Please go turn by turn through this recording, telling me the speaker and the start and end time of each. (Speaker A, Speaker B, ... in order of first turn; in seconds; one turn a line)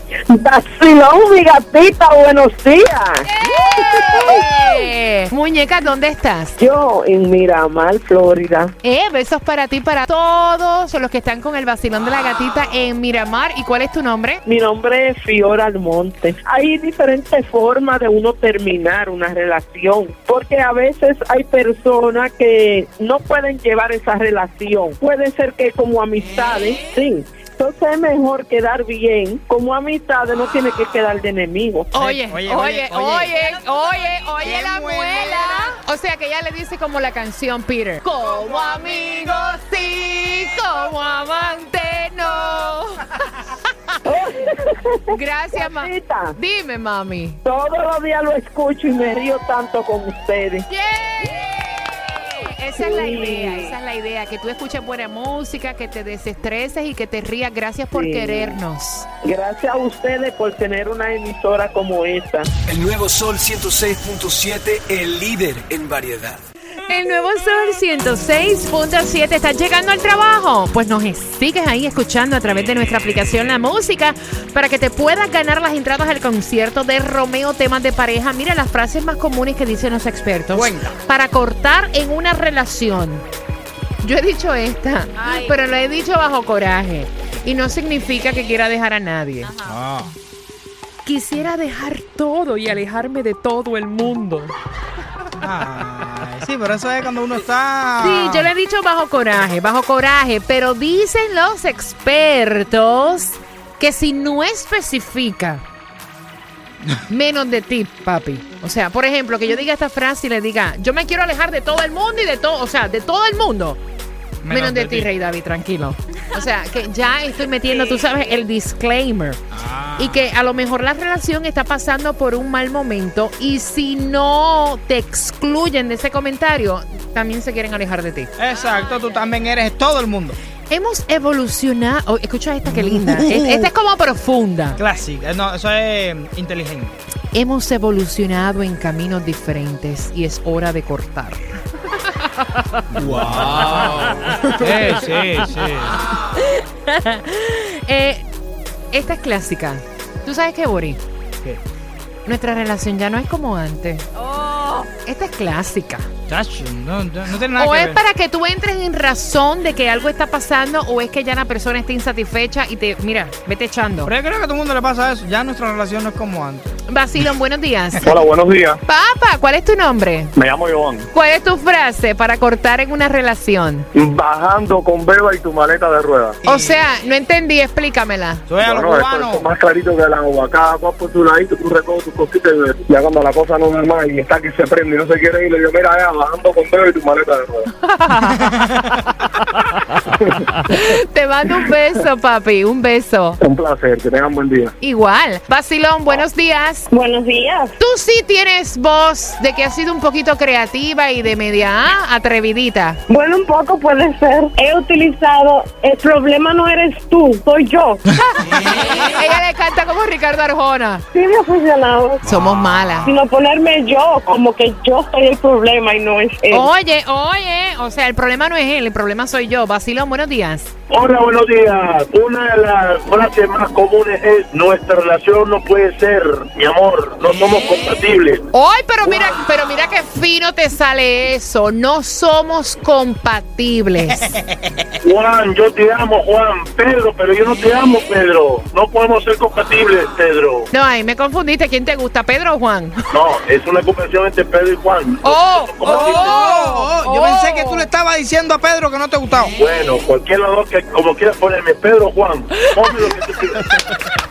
Speaker A: 0.3-4.6
Speaker B: 3.2-6.6
Speaker A: 6.6-8.7
Speaker B: 8.8-14.4
Speaker A: 14.4-31.9
Speaker B: 31.9-43.1
Speaker C: 31.9-33.3
Speaker C: 34.4-35.7
Speaker A: 44.0-46.3
Speaker B: 45.1-47.4
Speaker A: 47.4-50.6
Speaker B: 50.7-59.1
Speaker A: 52.8-53.8
Speaker A: 57.9-58.6
Speaker A: 59.2-62.5
Speaker D: 62.7-66.4
Speaker B: 66.9-83.2
Speaker C: 80.5-81.0
Speaker B: 84.0-89.5
Speaker C: 89.6-90.1
Speaker B: 91.0-94.5
Speaker C: 95.4-98.5
Speaker B: 98.0-105.6
Speaker B: 107.1-113.8
Speaker C: 114.4-115.1
Speaker B: 114.5-119.4
Speaker C: 119.5-120.3
Speaker B: 120.0-128.3
Speaker C: 128.4-130.3
Speaker B: 130.7-134.8
Speaker C: 132.7-133.7
Speaker C: 134.8-137.0
Speaker B: 137.3-142.6
Speaker C: 142.9-146.0
Speaker B: 146.0-148.3
Speaker B: 148.9-151.0
Speaker B: 152.2-156.1
Speaker C: 156.3-158.0
Speaker B: 157.6-164.1
Speaker C: 164.0-166.7
Speaker B: 166.9-168.2
Speaker E: 168.0-168.8
Speaker B: 168.9-170.3
Speaker E: 170.3-171.1
Speaker B: 171.1-173.9
Speaker E: 173.9-176.4
Speaker C: 176.4-176.8
Speaker B: 176.4-178.4
Speaker C: 178.5-179.5
Speaker E: 178.6-187.7
Speaker B: 187.9-188.5
Speaker B: 190.6-193.4
Speaker E: 193.4-194.7
Speaker B: 194.8-196.9
Speaker F: 196.9-197.8
Speaker B: 197.8-203.0
Speaker F: 203.1-208.0
Speaker B: 208.1-211.0
Speaker F: 211.1-212.3
Speaker B: 212.2-213.1
Speaker C: 212.3-213.1
Speaker F: 213.0-216.7
Speaker B: 216.5-220.7
Speaker G: 220.9-228.4
Speaker B: 228.5-234.3
Speaker G: 235.0-240.7
Speaker B: 240.7-243.0
Speaker G: 243.1-246.3
Speaker B: 245.2-247.9
Speaker C: 245.8-249.5
Speaker G: 249.6-253.9